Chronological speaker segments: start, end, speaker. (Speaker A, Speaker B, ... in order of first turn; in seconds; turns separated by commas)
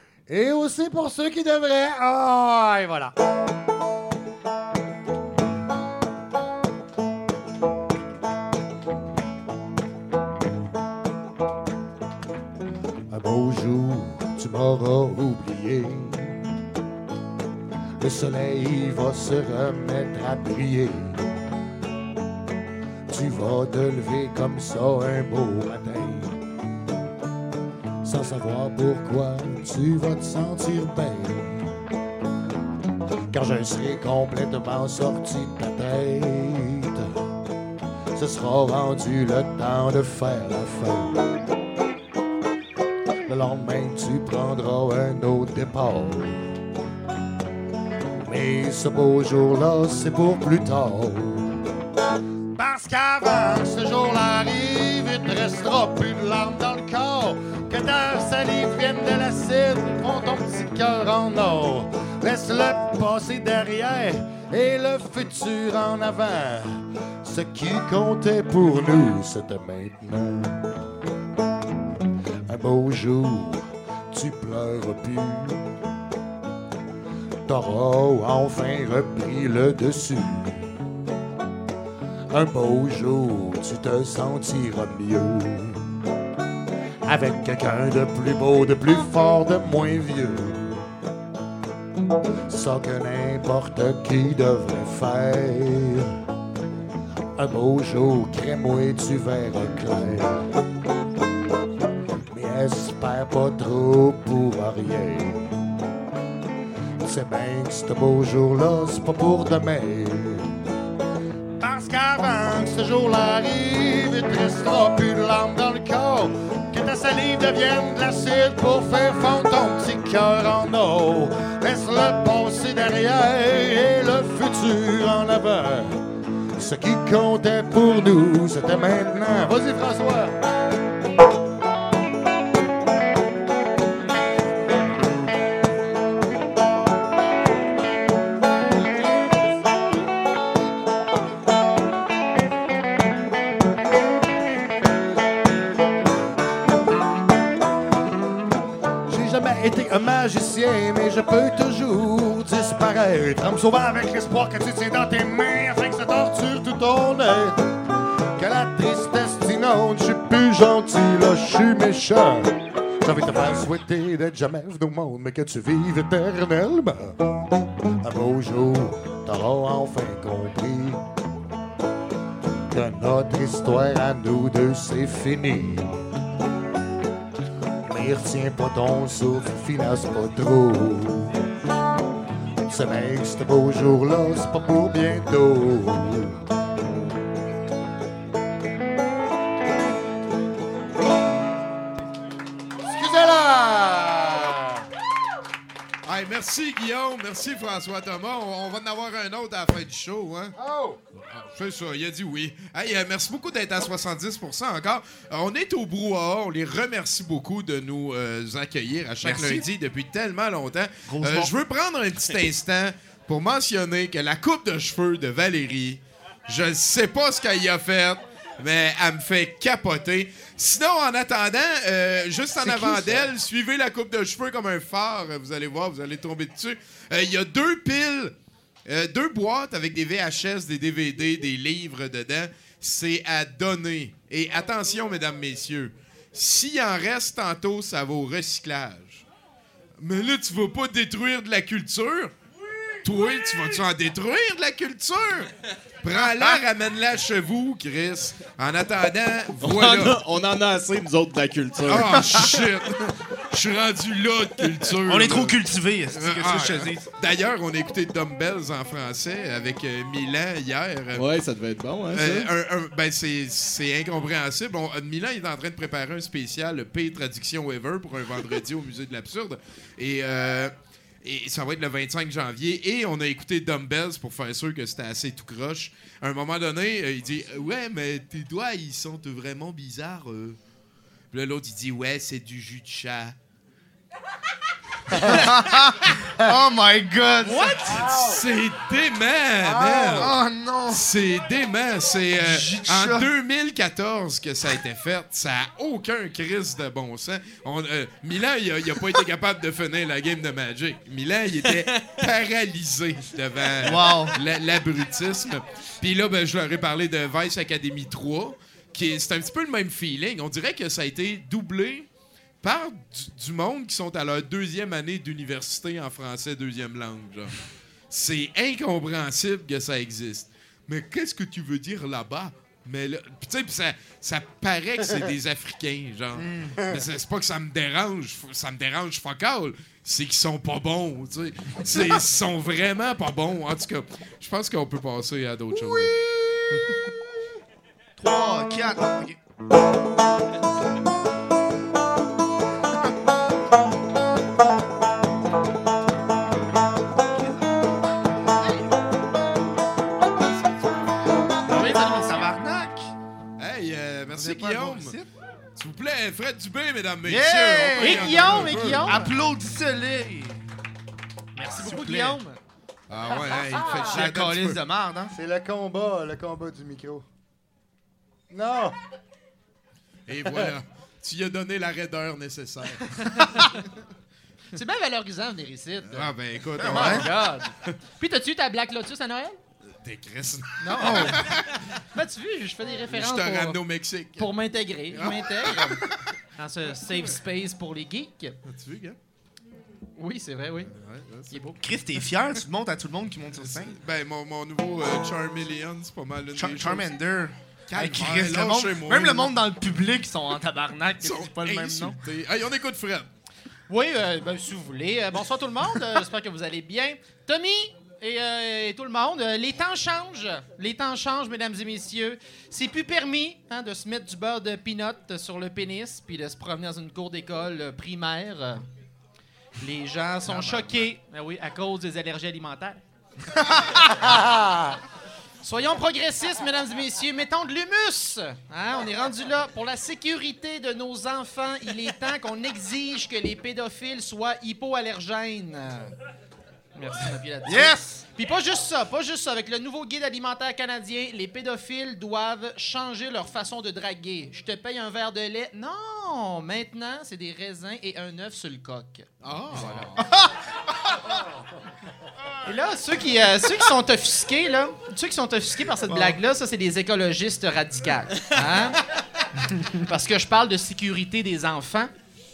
Speaker A: 0.3-3.1, Speaker A: 13.1-16.3, Speaker A: 18.0-21.2, Speaker A: 23.1-26.4, Speaker A: 28.0-31.6, Speaker A: 33.3-37.1, Speaker A: 38.1-41.3, Speaker A: 43.3-46.4, Speaker A: 48.2-51.5, Speaker A: 52.5-70.6, Speaker A: 72.5-75.6, Speaker A: 77.5-80.7, Speaker A: 82.3-85.8, Speaker A: 87.0-90.8, Speaker A: 92.5-96.1, Speaker A: 97.4-100.5, Speaker A: 102.3-105.5, Speaker A: 107.0-110.5, Speaker A: 111.6-126.0, Speaker A: 126.6-130.3, Speaker A: 149.1-157.7, Speaker A: 158.4-167.1, Speaker A: 168.0-171.0, Speaker A: 172.7-176.0, Speaker A: 177.9-181.4, Speaker A: 182.7-186.4, Speaker A: 192.8-194.8, Speaker B: 196.0-200.5, Speaker A: 200.6-201.0, Speaker B: 201.2-228.3, Speaker C: 209.2-209.6, Speaker C: 211.1-211.5, Speaker C: 222.6-223.2, Speaker B: 228.8-239.2, Speaker B: 240.0-242.3, Speaker B: 243.0-245.5, Speaker B: 246.0-250.2, Speaker C: 246.1-246.6, Speaker D: 249.6-252.6, Speaker B: 251.8-253.0, Speaker B: 253.5-255.6, Speaker C: 255.1-257.1, Speaker B: 256.1-261.2, Speaker D: 261.1-262.5, Speaker B: 262.1-270.7, Speaker B: 271.2-280.6, Speaker B: 281.3-283.4, Speaker C: 285.1-288.0, Speaker E: 287.5-287.8, Speaker A: 287.9-288.3, Speaker B: 288.2-290.3, Speaker A: 289.6-290.2, Speaker C: 290.0-291.0, Speaker B: 290.9-312.1, Speaker C: 292.4-293.3, Speaker C: 303.8-304.4, Speaker B: 312.6-317.5, Speaker B: 318.1-336.1, Speaker C: 326.4-326.8, Speaker C: 338.2-339.4, Speaker E: 351.6-352.6, Speaker C: 351.7-353.0, Speaker B: 353.6-355.2, Speaker C: 354.3-355.3, Speaker B: 355.8-359.1, Speaker C: 357.2-360.6, Speaker E: 358.0-359.3, Speaker E: 361.6-362.6, Speaker C: 361.8-362.4, Speaker B: 363.1-364.8, Speaker A: 363.8-364.1, Speaker C: 363.9-365.3, Speaker A: 365.3-367.2, Speaker A: 368.5-368.9, Speaker B: 370.3-373.0, Speaker E: 374.7-379.6, Speaker B: 376.0-377.4, Speaker C: 376.8-377.3, Speaker B: 379.9-381.6, Speaker E: 380.8-381.4, Speaker C: 381.0-381.4, Speaker E: 382.1-383.8, Speaker B: 383.1-384.5, Speaker E: 384.4-386.0, Speaker B: 385.1-385.9, Speaker E: 386.6-388.6, Speaker B: 387.1-387.3, Speaker B: 388.6-389.2, Speaker E: 390.2-390.9, Speaker B: 390.9-391.6, Speaker E: 391.5-391.7, Speaker C: 391.8-393.9, Speaker B: 393.6-397.1, Speaker C: 396.5-402.2, Speaker B: 397.9-399.5, Speaker B: 401.2-403.3, Speaker E: 403.9-418.8, Speaker E: 419.8-423.0, Speaker A: 424.3-424.9, Speaker E: 425.6-436.1, Speaker E: 436.9-450.2, Speaker C: 437.6-438.2, Speaker B: 449.4-450.0, Speaker E: 452.6-459.0, Speaker E: 460.1-462.1